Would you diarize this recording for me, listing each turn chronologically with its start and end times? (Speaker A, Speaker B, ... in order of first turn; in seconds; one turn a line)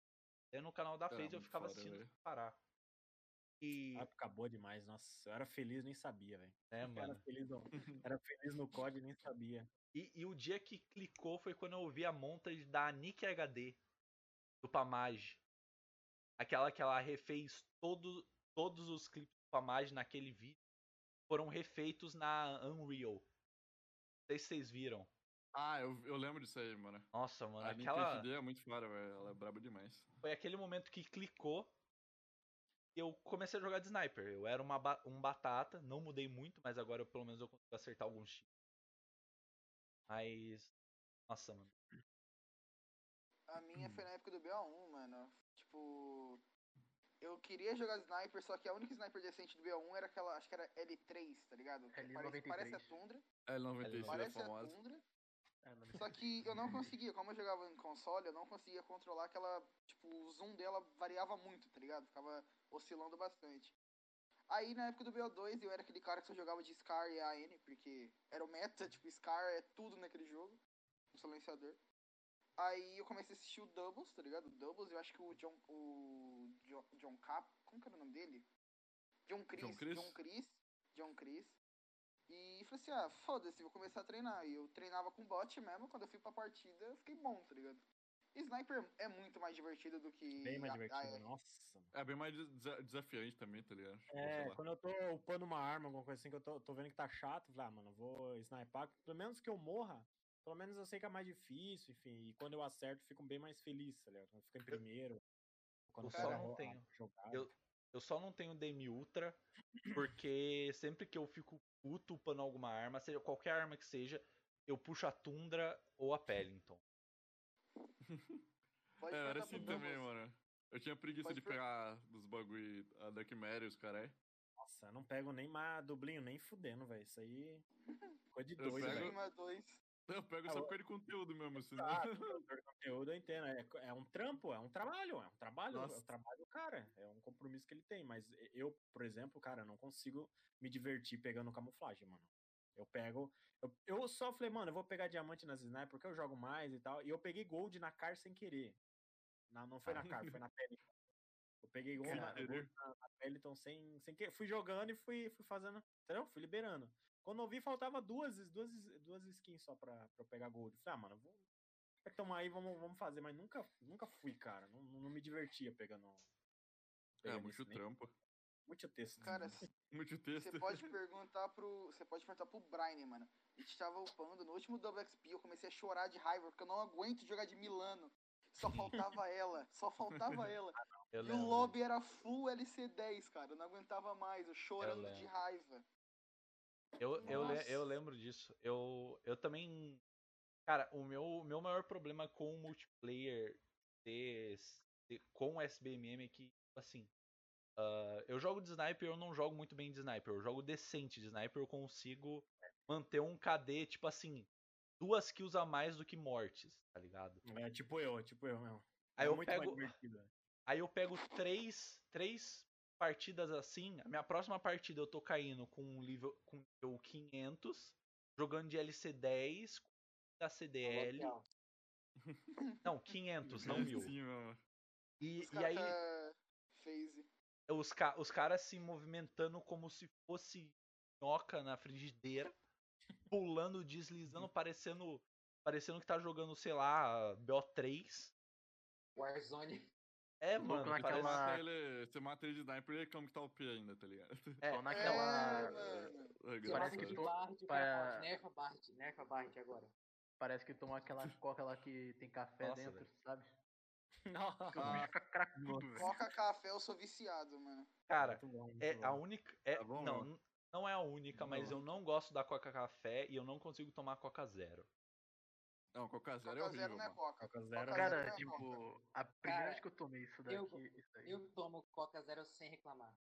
Speaker A: 0.5-2.6
Speaker B: 1.1-2.1
Speaker A: 3.6-4.1
Speaker C: 3.9-9.7
Speaker A: 6.7-7.2
Speaker B: 7.7-8.0
Speaker A: 9.9-13.8
Speaker A: 14.6-15.4
Speaker A: 16.4-20.6
Speaker A: 21.3-23.2
Speaker A: 24.3-25.1
Speaker B: 25.5-27.1
Speaker A: 27.1-28.3
Speaker B: 27.6-30.1
Speaker A: 30.2-31.7
Speaker A: 32.9-38.5
Speaker A: 40.1-40.7
Speaker A: 41.3-41.7
Speaker D: 43.5-46.4
Speaker D: 47.2-53.2
Speaker E: 51.9-53.0
Speaker B: 53.5-54.8
Speaker A: 53.8-54.1
Speaker D: 54.0-55.0
Speaker E: 55.6-56.2
Speaker D: 55.9-63.7
Speaker D: 64.5-70.6
Speaker D: 71.1-71.8
Speaker D: 72.6-78.5
Speaker D: 79.3-81.6
Speaker B: 79.6-80.2
Speaker D: 82.3-87.8
Speaker D: 88.3-91.2
Speaker C: 90.3-91.9
Speaker B: 91.9-94.6
Speaker C: 94.1-105.2
Speaker C: 105.9-107.5
Speaker A: 106.0-109.4
Speaker D: 106.0-106.5
Speaker A: 109.9-116.8
Speaker B: 118.0-118.4
Speaker D: 119.0-120.1
Speaker B: 119.0-124.2
Speaker D: 121.2-121.6
Speaker C: 124.6-127.6
Speaker D: 127.9-128.2
Speaker C: 128.3-129.1
Speaker B: 128.6-129.2
Speaker D: 128.7-129.8
Speaker B: 130.1-132.4
Speaker C: 130.5-130.8
Speaker C: 131.5-148.8
Speaker B: 135.7-136.0
Speaker C: 149.5-150.8
Speaker B: 149.9-150.4
Speaker C: 151.6-161.4
Speaker B: 152.0-152.7
Speaker E: 152.0-152.4
Speaker C: 162.0-166.2
Speaker C: 167.2-167.8
Speaker B: 167.2-168.1
Speaker C: 168.7-169.6
Speaker B: 169.2-170.9
Speaker D: 169.2-169.7
Speaker D: 170.3-185.8
Speaker B: 178.7-179.0
Speaker B: 180.1-180.5
Speaker A: 181.1-181.8
Speaker A: 184.8-185.3
Speaker D: 187.0-187.8
Speaker A: 187.0-190.0
Speaker C: 187.3-187.6
Speaker A: 190.7-197.1
Speaker A: 197.8-204.5
Speaker A: 205.0-207.4
Speaker C: 207.4-210.3
Speaker A: 209.2-209.9
Speaker A: 210.7-221.3
Speaker F: 220.8-221.4
Speaker B: 222.2-222.5
Speaker D: 222.6-222.8
Speaker A: 222.8-224.1
Speaker B: 223.5-224.6
Speaker C: 223.6-223.9
Speaker A: 225.2-226.0
Speaker D: 225.5-227.3
Speaker A: 227.7-232.5
Speaker A: 233.3-238.3
Speaker F: 239.2-239.9
Speaker A: 240.4-241.5
Speaker E: 240.6-241.6
Speaker B: 240.7-244.6
Speaker A: 244.6-245.7
Speaker E: 244.7-246.1
Speaker D: 244.9-246.3
Speaker B: 246.4-247.2
Speaker E: 246.6-248.3
Speaker F: 246.6-249.9
Speaker E: 250.4-253.5
Speaker A: 252.6-253.1
Speaker C: 254.2-255.1
Speaker E: 254.7-256.1
Speaker B: 254.7-256.1
Speaker D: 255.9-257.9
Speaker A: 258.1-264.9
Speaker C: 258.2-259.2
Speaker B: 259.7-260.3
Speaker C: 261.4-261.8
Speaker B: 265.9-267.2
Speaker D: 266.4-268.7
Speaker C: 267.4-268.6
Speaker E: 267.9-271.4
Speaker F: 269.4-269.8
Speaker F: 270.4-273.1